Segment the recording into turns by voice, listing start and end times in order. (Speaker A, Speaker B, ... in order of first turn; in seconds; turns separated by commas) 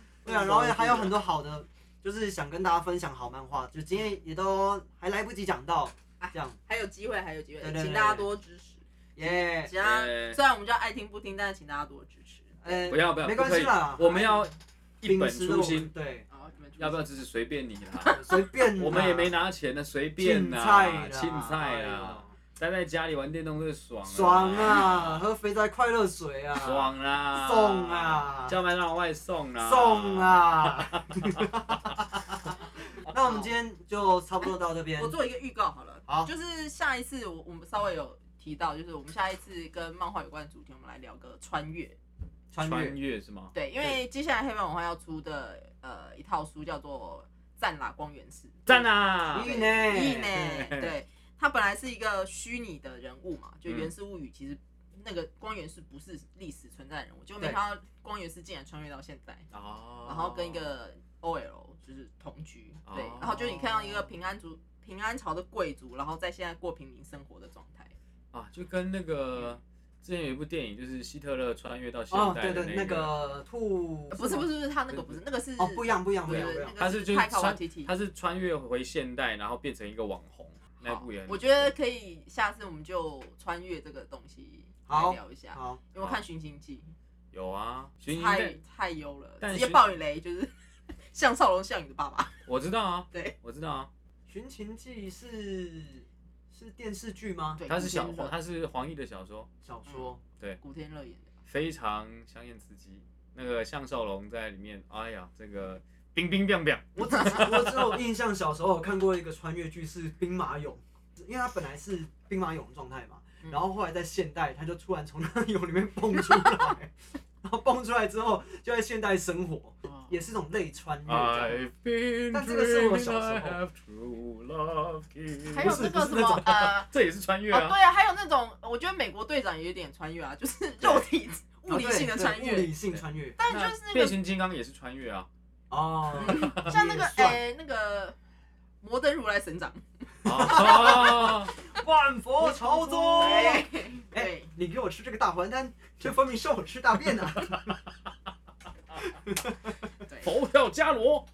Speaker A: 0.2-6.6, Speaker B: 0.3-0.7, Speaker C: 0.7-1.1, Speaker B: 6.2-12.9, Speaker A: 7.6-8.3, Speaker A: 9.2-9.7, Speaker C: 9.8-10.4, Speaker A: 12.6-14.3, Speaker C: 12.9-15.9, Speaker A: 15.0-16.3, Speaker B: 16.3-17.1, Speaker C: 16.8-25.2, Speaker B: 18.0-18.4, Speaker A: 18.1-19.4, Speaker A: 20.2-22.4, Speaker A: 24.1-28.6, Speaker C: 26.6-31.9, Speaker A: 29.6-35.1, Speaker B: 35.0-42.0, Speaker A: 42.5-43.0, Speaker C: 42.6-43.5, Speaker B: 43.5-59.5, Speaker C: 48.7-49.5, Speaker A: 49.3-50.4, Speaker C: 50.3-50.9, Speaker C: 53.7-53.9, Speaker C: 59.5-60.7, Speaker B: 60.0-68.0, Speaker C: 62.9-64.1, Speaker C: 68.3-73.1, Speaker A: 72.1-74.5, Speaker B: 74.1-77.9, Speaker C: 74.9-75.2, Speaker A: 75.6-76.8, Speaker C: 76.3-81.7, Speaker B: 80.8-86.9, Speaker A: 84.9-85.8, Speaker C: 86.0-86.2, Speaker C: 87.3-88.6, Speaker B: 88.1-92.4, Speaker C: 89.4-89.9, Speaker C: 92.5-93.9, Speaker A: 94.3-97.6, Speaker B: 97.6-98.3, Speaker C: 97.7-99.5, Speaker A: 99.6-100.2, Speaker B: 99.9-101.3, Speaker C: 101.5-108.0, Speaker A: 107.0-121.7, Speaker C: 121.1-127.8, Speaker A: 122.3-123.6, Speaker B: 125.5-126.9, Speaker A: 125.6-126.5, Speaker B: 127.5-132.8, Speaker C: 130.8-131.1, Speaker A: 131.7-133.4, Speaker B: 133.4-134.2, Speaker C: 133.5-135.3, Speaker A: 135.7-137.4, Speaker C: 136.2-136.8, Speaker B: 136.2-138.2, Speaker B: 138.8-139.8, Speaker C: 140.2-141.5, Speaker A: 140.2-147.8, Speaker B: 140.3-141.5, Speaker B: 142.4-144.5, Speaker A: 149.0-149.8, Speaker B: 150.1-150.3, Speaker C: 150.2-151.3